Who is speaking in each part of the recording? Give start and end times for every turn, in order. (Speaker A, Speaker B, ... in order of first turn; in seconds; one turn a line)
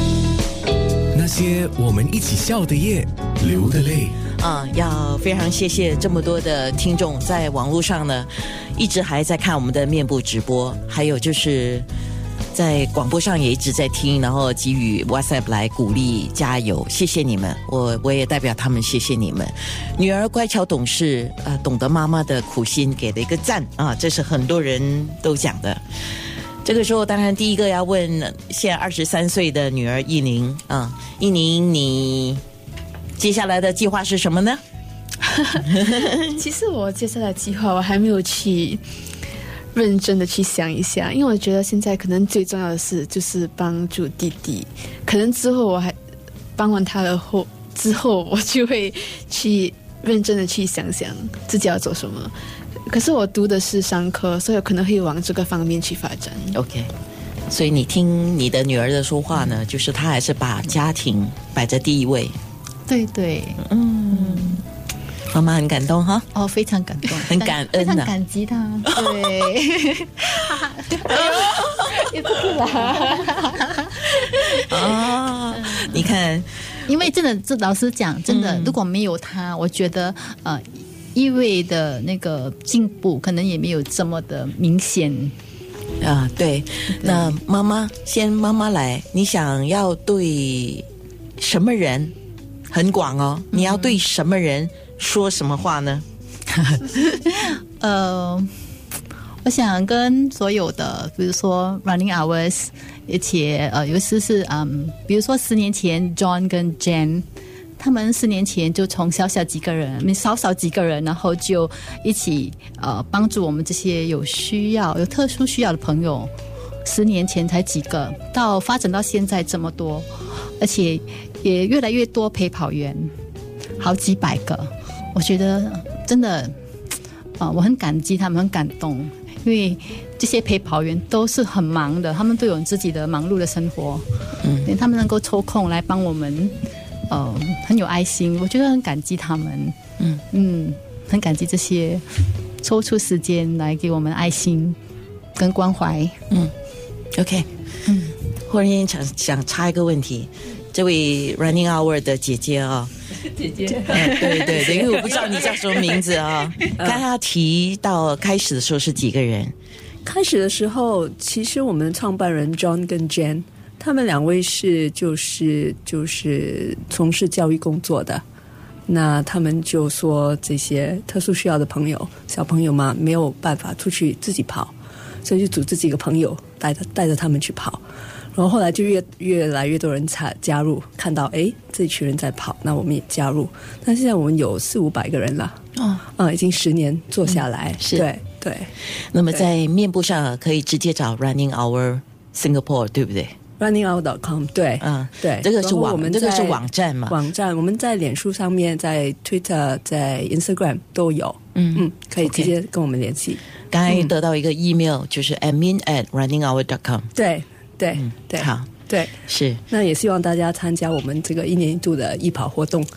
Speaker A: 1.1-4.2
Speaker B: 4.4-11.9
Speaker B: 12.5-25.8
Speaker B: 26.6-32.4
Speaker B: 33.2-34.6
Speaker C: 35.3-38.8
Speaker B: 35.6-36.3
Speaker C: 39.7-46.0
Speaker C: 46.6-52.3
Speaker C: 52.9-56.6
Speaker B: 56.5-56.9
Speaker B: 57.5-62.3
Speaker D: 62.9-64.6
Speaker B: 63.6-64.6
Speaker B: 65.3-66.3
Speaker D: 66.3-75.0
Speaker B: 67.1-68.1
Speaker B: 68.9-69.3
Speaker B: 71.1-71.9
Speaker C: 72.3-73.1
Speaker B: 74.4-76.5
Speaker D: 75.6-76.0
Speaker D: 76.9-85.3
Speaker B: 78.3-78.8
Speaker B: 86.0-90.8
Speaker D: 87.0-87.3
Speaker B: 91.4-92.1
Speaker B: 92.7-96.0
Speaker D: 93.6-93.8
Speaker D: 96.5-98.5
Speaker D: 99.4-107.2
Speaker D: 107.8-116.3
Speaker D: 116.8-123.1
Speaker D: 123.8-126.5
Speaker D: 127.4-134.1
Speaker B: 134.4-134.7
Speaker D: 134.6-136.6
Speaker D: 137.1-139.8
Speaker D: 140.3-142.0
Speaker D: 142.6-144.8
Speaker D: 145.4-146.2
Speaker B: 147.2-147.5
Speaker D: 147.9-148.2
Speaker B: 148.5-152.9
Speaker E: 153.5-155.0
Speaker B: 153.8-159.5
Speaker E: 156.8-157.0
Speaker E: 160.0-168.2
Speaker E: 168.9-177.8
Speaker E: 178.3-185.6
Speaker B: 185.8-186.0
Speaker E: 186.2-188.7
Speaker B: 187.3-188.1
Speaker B: 189.1-193.3
Speaker E: 193.6-203.4
Speaker B: 194.8-197.2
Speaker B: 201.6-202.5
Speaker B: 203.7-207.1
Speaker E: 207.2-212.9
Speaker B: 207.9-208.7
Speaker B: 209.3-209.6